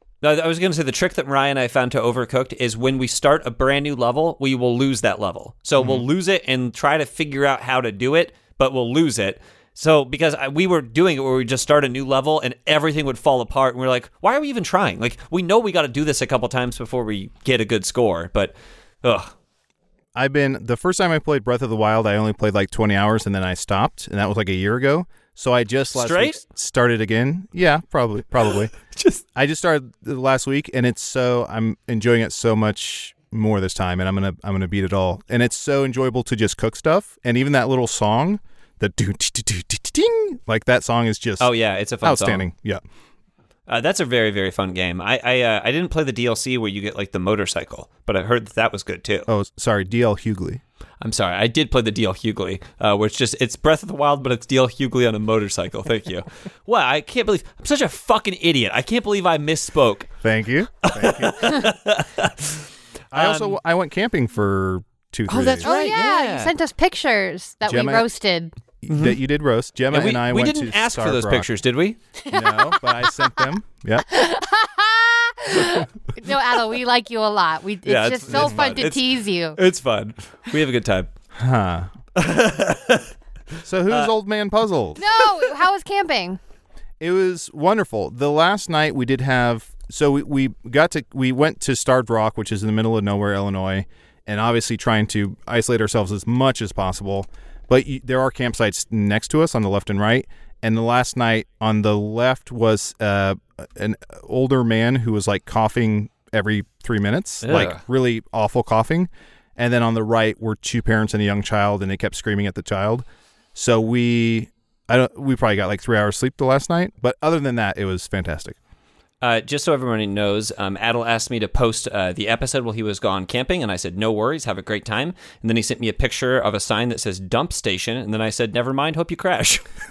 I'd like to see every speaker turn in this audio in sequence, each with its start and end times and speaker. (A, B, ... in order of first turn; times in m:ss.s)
0:00.2-0:19.3 A
0:05.8-0:06.0 B
0:20.2-0:28.7 B
0:26.0-0:26.4 A
0:28.9-0:29.2 A
0:29.4-0:42.8 B
0:41.4-0:42.5 A
0:43.7-0:49.3 A
0:49.3-0:50.6 B
0:51.0-1:00.1 A
1:00.2-1:01.6 B
1:00.8-1:03.6 A
1:03.1-1:05.7 B
1:05.3-1:06.5 A
1:05.6-1:08.5 C
1:07.7-1:08.1 B
1:08.8-1:11.5 B
1:08.9-1:09.2 A
1:09.9-1:12.0 A
1:12.2-1:13.3 C
1:12.3-1:14.1 B
1:14.1-1:19.6 C
1:17.9-1:21.1 A
1:18.3-1:18.8 B
1:21.4-1:21.9 B
1:22.2-1:23.1 A
1:23.6-1:25.0 B
1:25.0-1:26.4 C
1:27.0-1:58.6 B
1:47.4-1:47.8 A
1:59.2-2:09.6 A